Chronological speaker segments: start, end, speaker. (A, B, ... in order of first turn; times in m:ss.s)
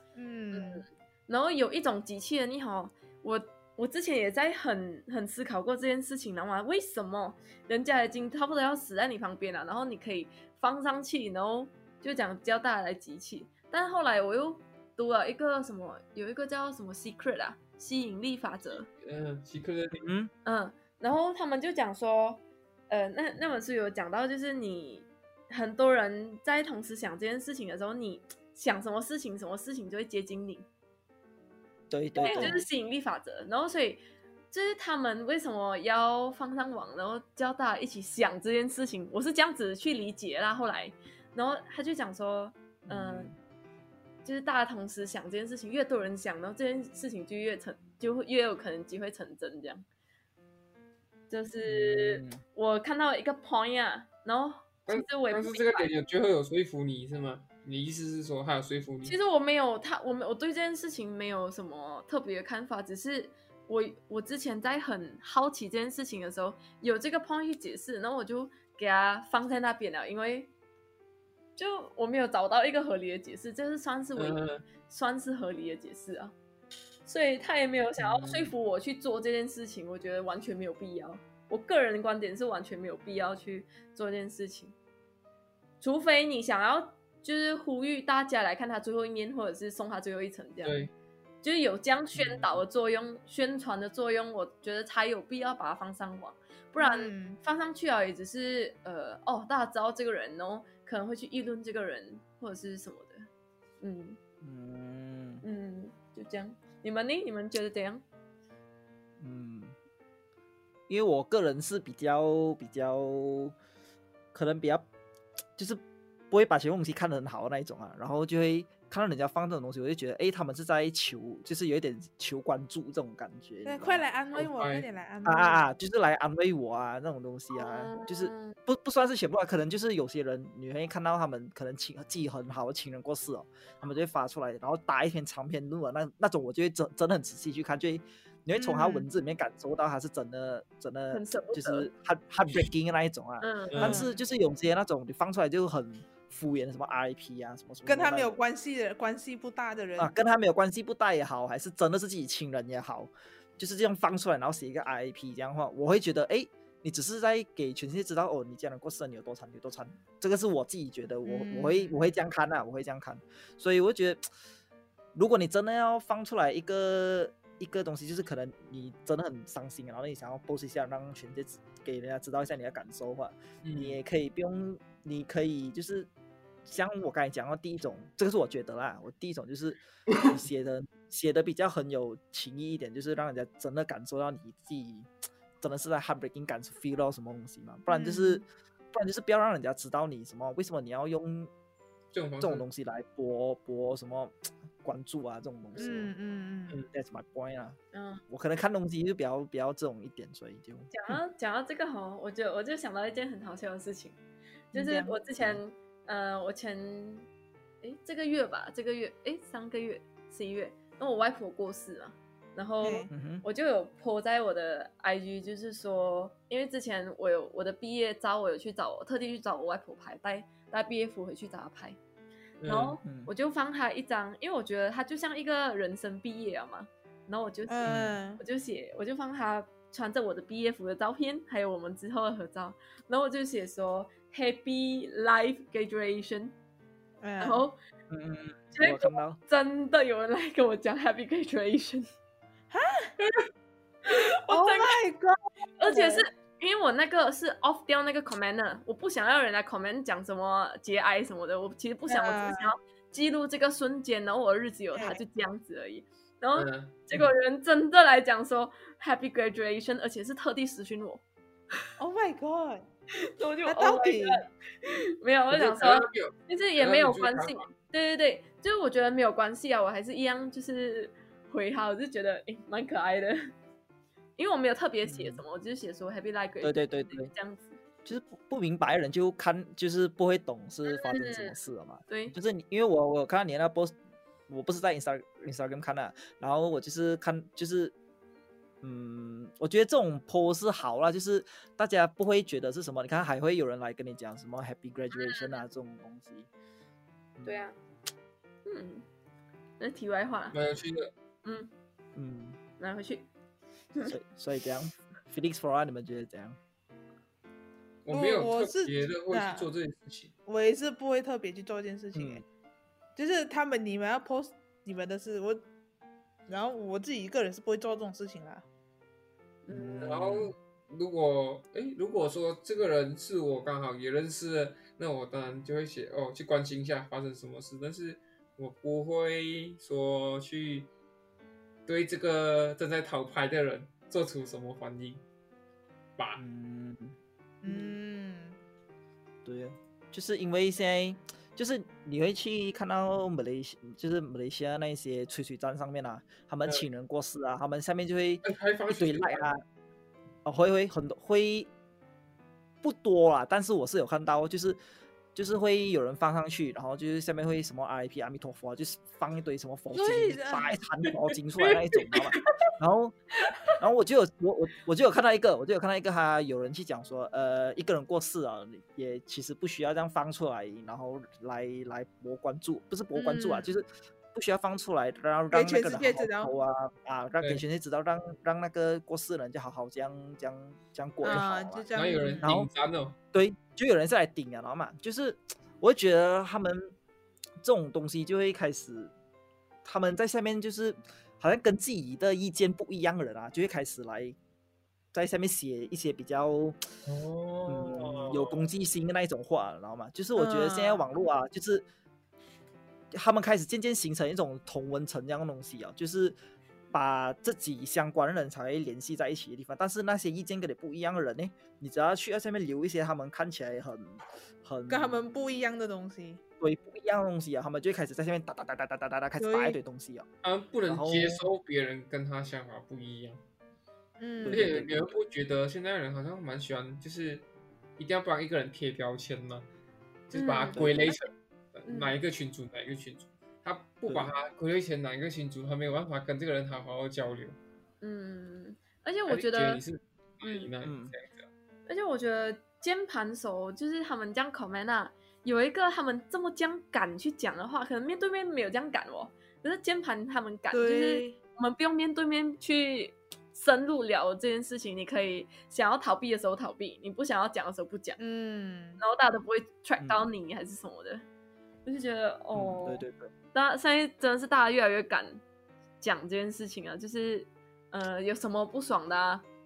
0:00.2-0:00.8 A
0:00.5-0:18.9 B
0:19.0-0:20.1 C
0:20.0-0:20.3 D
0:20.4-0:30.7 B
0:31.9-0:32.6 D
0:32.2-0:43.3 B
0:32.2-0:32.6 A
0:42.9-0:43.4 D
0:44.2-0:49.8 B
0:51.3-0:55.9 B
0:51.7-0:52.4 D
0:54.9-0:59.2 C
0:59.0-1:10.5 B
1:11.6-1:16.3 B
1:14.2-1:14.6 C
1:17.1-1:24.8 B
1:18.0-1:18.5 C
1:25.8-1:30.9 B
1:30.6-1:30.9 C
1:31.4-1:43.3 B
1:32.1-1:32.6 D
1:36.8-1:37.4 A
1:43.8-1:44.2 B
1:44.4-1:45.4 D
1:45.4-1:48.0 B
1:49.2-1:49.8 D
1:50.9-1:53.6 D
1:54.3-1:54.9 D
1:55.6-2:04.0 D
2:03.6-2:05.6 A
2:04.4-2:04.8 C
2:05.2-2:28.4 D
2:07.6-2:08.6 B
2:18.6-2:19.1 A
2:21.1-2:21.9 B
2:23.4-2:24.0 B
2:23.7-2:24.0 C
2:23.8-2:24.2 A
2:27.9-2:30.1 A
2:30.0-2:44.2 D
2:41.3-2:42.1 A
2:45.2-2:56.1 D
2:53.6-2:54.0 C
2:56.7-3:05.1 D
3:05.6-3:11.5 D
3:07.9-3:08.4 A
3:12.1-3:12.6 C
3:12.4-3:16.1 D
3:15.8-3:16.8 A
3:16.9-3:17.8 D
3:17.9-3:18.2 B
3:18.3-3:20.9 D
3:20.9-3:24.2 B
3:24.7-3:27.3 B
3:24.7-3:25.2 A
3:27.8-3:42.0 B
3:32.8-3:33.1 A
3:33.1-3:33.4 D
3:42.6-3:43.0 C
3:42.7-3:56.6 B
3:43.0-3:43.3 D
3:47.7-3:48.4 A
3:47.9-3:48.2 D
3:57.2-3:57.6 A
3:57.4-3:57.8 B
3:58.1-3:59.4 D
3:58.8-4:02.1 B
4:02.7-4:03.1 A
4:04.1-4:05.0 B
4:04.5-4:06.3 A
4:05.8-4:21.2 B
4:12.1-4:12.7 A
4:14.9-4:15.2 A
4:16.6-4:17.0 C
4:22.0-4:22.9 A
4:23.3-4:33.5 B
4:23.7-4:24.4 A
4:25.5-4:27.7 C
4:34.4-4:37.8 B
4:35.0-4:35.4 D
4:36.6-4:37.3 D
4:38.0-4:44.0 D
4:40.9-4:41.6 B
4:42.1-4:42.4 B
4:44.5-4:47.9 D
4:48.8-4:56.5 D
4:55.1-4:55.6 B
4:57.4-4:57.6 D
4:57.4-4:57.8 B
4:58.7-4:59.1 B
4:59.8-5:00.6 B
5:00.5-5:01.1 C
5:01.4-5:01.7 B
5:02.2-5:02.6 D
5:02.8-5:03.3 B
5:04.0-5:06.6 D
5:08.0-5:10.3 C
5:08.1-5:09.7 A
5:10.5-5:12.4 A
5:12.1-5:12.4 D
5:13.2-5:15.6 A
5:16.5-5:18.6 A
5:19.7-5:20.1 B
5:19.7-5:20.5 D
5:20.0-5:30.9 C
5:31.9-5:35.2 C
5:36.4-5:37.9 D
5:37.6-5:38.6 A
5:39.4-5:49.6 D
5:48.4-5:49.5 C
5:50.4-5:51.7 D
5:52.8-5:54.8 D
5:55.4-6:03.2 D
5:59.9-6:00.8 A
6:01.6-6:02.5 C
6:03.8-6:21.9 D
6:13.2-6:13.7 A
6:15.5-6:16.5 A
6:21.2-6:22.5 A
6:22.0-6:23.2 C
6:22.4-6:22.7 D
6:23.3-6:26.9 D
6:27.6-6:29.1 D
6:29.8-6:34.4 D
6:35.1-6:36.8 D
6:37.1-6:38.7 C
6:37.7-6:41.9 D
6:40.4-6:41.1 A
6:43.1-6:46.4 D
6:46.9-6:55.2 D
6:54.9-6:56.4 A
6:56.6-7:00.3 D
6:59.4-6:59.8 A
7:00.4-7:03.4 C
7:00.9-7:01.4 D
7:04.2-7:04.7 A
7:04.4-7:05.2 D
7:04.5-7:07.5 C
7:08.0-7:09.7 C
7:10.3-7:17.6 C
7:10.3-7:11.2 B
7:10.7-7:11.1 D
7:11.9-7:12.2 B
7:14.1-7:14.3 D
7:18.0-7:19.8 B
7:19.3-7:21.5 C
7:20.4-7:20.7 B
7:20.8-7:21.2 D
7:21.9-7:38.2 B
7:30.7-7:31.4 A
7:38.2-7:39.0 A
7:39.0-7:41.2 B
7:40.0-7:40.3 D
7:41.8-7:45.4 B
7:42.5-7:43.3 D
7:46.0-7:49.4 B